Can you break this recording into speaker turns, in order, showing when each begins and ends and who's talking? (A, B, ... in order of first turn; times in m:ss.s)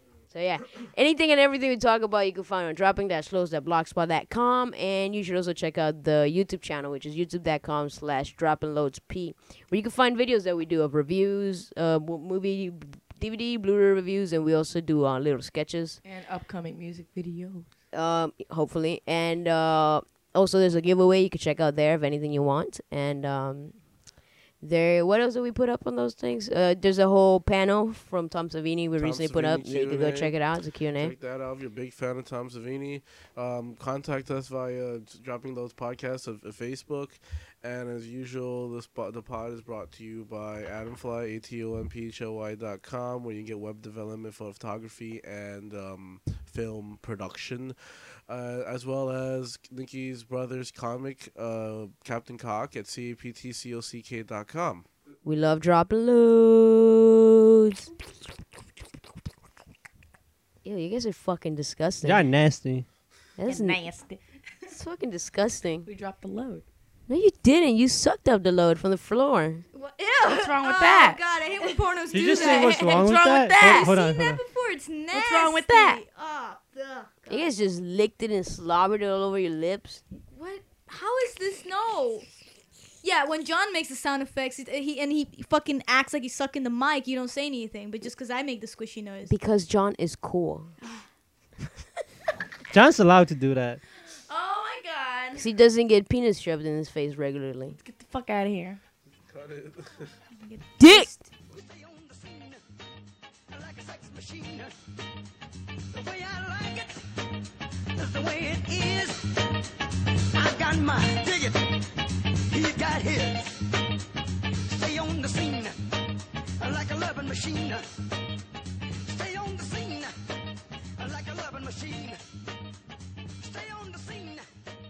0:00.3-0:16.0 A
0:16.0-0:17.7 B
0:17.9-0:23.8 A
0:24.6-0:31.1 A
0:29.0-0:30.3 C
0:31.0-0:47.8 C
0:48.3-0:54.9 C
0:55.2-0:57.9 A
1:00.6-1:02.2 A
1:02.0-1:02.9 D
1:03.4-1:03.8 A
1:03.4-1:04.7 B
1:04.7-1:05.9 A
1:05.8-1:06.6 B
1:07.1-1:09.6 A
1:09.7-1:13.0 E
1:10.2-1:11.2 B
1:12.1-1:14.4 D
1:12.1-1:13.9 B
1:13.6-1:17.5 E
1:15.1-1:16.0 B
1:17.3-1:20.0 A
1:20.3-1:22.3 E
1:23.0-1:29.3 E
1:29.3-1:30.7 A
1:32.7-1:33.8 D
1:34.3-1:35.5 B
1:35.4-1:37.8 A
1:37.7-1:38.8 B
1:39.2-1:40.2 C
1:40.3-1:41.2 E
1:40.8-1:41.1 A
1:41.5-1:42.6 F
1:43.5-1:44.7 F
1:45.9-1:47.0 F
1:47.9-1:49.7 F
1:50.3-1:53.6 F
1:54.6-1:55.8 F
1:56.6-1:57.9 F
1:59.0-2:00.1 F
2:01.0-2:02.2 F
2:03.4-2:04.5 F